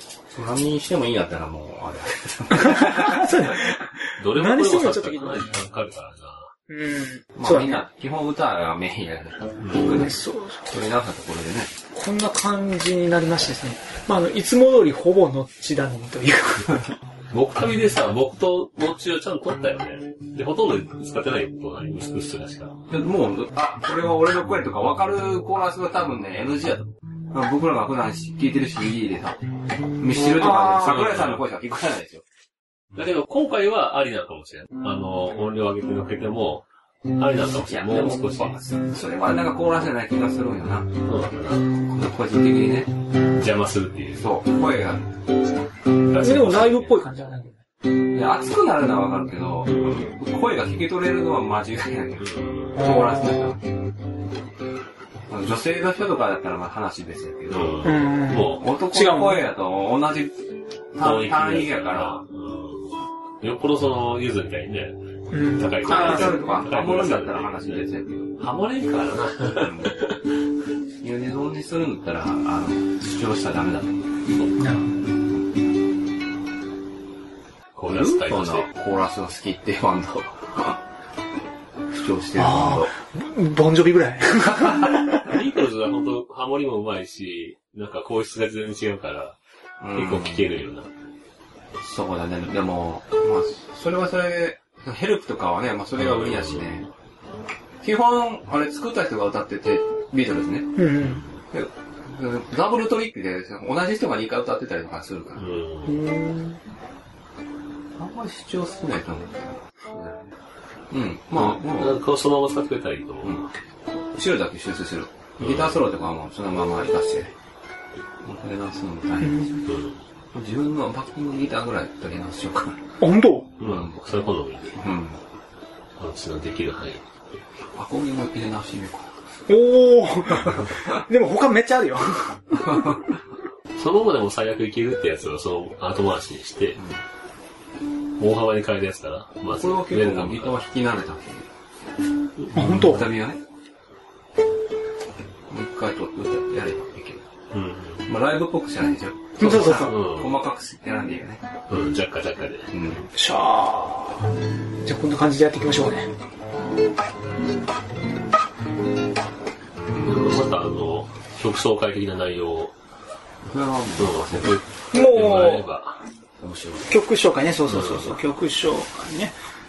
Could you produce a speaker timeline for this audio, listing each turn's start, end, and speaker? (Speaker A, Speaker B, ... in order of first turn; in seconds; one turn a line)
Speaker A: 0.3-3.3
Speaker B: 2.5-5.5
Speaker C: 4.2-6.5
Speaker B: 6.7-7.8
Speaker A: 7.3-11.7
Speaker C: 9.6-10.0
Speaker B: 9.9-10.7
Speaker B: 11.9-16.9
Speaker C: 17.3-22.8
Speaker A: 22.9-29.4
Speaker A: 30.0-32.2
Speaker B: 30.3-31.0
Speaker C: 30.4-31.4
Speaker C: 32.9-38.6
Speaker A: 37.4-40.9
Speaker C: 41.0-41.8
Speaker A: 41.8-42.9
Speaker C: 43.3-44.3
Speaker A: 44.2-45.1
Speaker C: 46.0-46.9
Speaker B: 46.2-47.6
Speaker A: 48.1-53.6
Speaker C: 49.7-50.1
Speaker C: 52.2-52.9
Speaker B: 52.8-53.3
Speaker A: 55.3-57.9
Speaker C: 57.5-58.6
Speaker B: 57.8-59.4
Speaker A: 58.5-62.2
Speaker C: 61.0-70.3
Speaker B: 65.3-66.8
Speaker A: 65.8-68.4
Speaker A: 69.4-70.0
Speaker A: 71.0-74.1
Speaker C: 74.3-74.5
Speaker B: 74.6-75.0
Speaker C: 77.8-78.7
Speaker A: 77.9-80.8
Speaker A: 81.9-82.9
Speaker B: 82.3-85.2
Speaker C: 84.8-89.3
Speaker A: 89.8-90.5
Speaker C: 89.9-90.9
Speaker A: 91.8-96.9
Speaker C: 96.0-96.8
Speaker A: 97.8-100.9
Speaker B: 100.7-101.2
Speaker C: 101.0-101.4
Speaker A: 101.5-105.5
Speaker C: 105.3-106.0
Speaker B: 105.8-106.6
Speaker A: 108.0-110.3
Speaker A: 110.9-112.0
Speaker C: 111.3-113.5
Speaker A: 113.2-113.5
Speaker A: 114.1-117.3
Speaker C: 115.4-115.8
Speaker A: 118.2-119.7
Speaker B: 119.2-119.6
Speaker C: 119.7-120.0
Speaker A: 120.3-122.8
Speaker B: 123.0-123.5
Speaker C: 123.6-124.8
Speaker A: 123.6-124.0
Speaker A: 124.7-125.2
Speaker C: 126.0-127.0
Speaker A: 127.7-129.1
Speaker B: 129.5-133.0
Speaker C: 133.8-136.8
Speaker C: 138.2-140.6
Speaker A: 139.5-141.5
Speaker B: 142.5-143.1
Speaker A: 142.5-143.4
Speaker A: 145.5-147.2
Speaker C: 147.5-148.1
Speaker A: 148.0-151.4
Speaker B: 149.4-150.0
Speaker C: 149.4-150.4
Speaker C: 151.7-152.7
Speaker A: 152.7-153.1
Speaker B: 153.1-154.3
Speaker B: 154.8-156.1
Speaker C: 159.9-162.7
Speaker A: 163.4-164.6
Speaker C: 163.9-166.0
Speaker B: 164.9-165.7
Speaker A: 166.4-166.9
Speaker B: 166.9-169.3
Speaker C: 167.7-168.2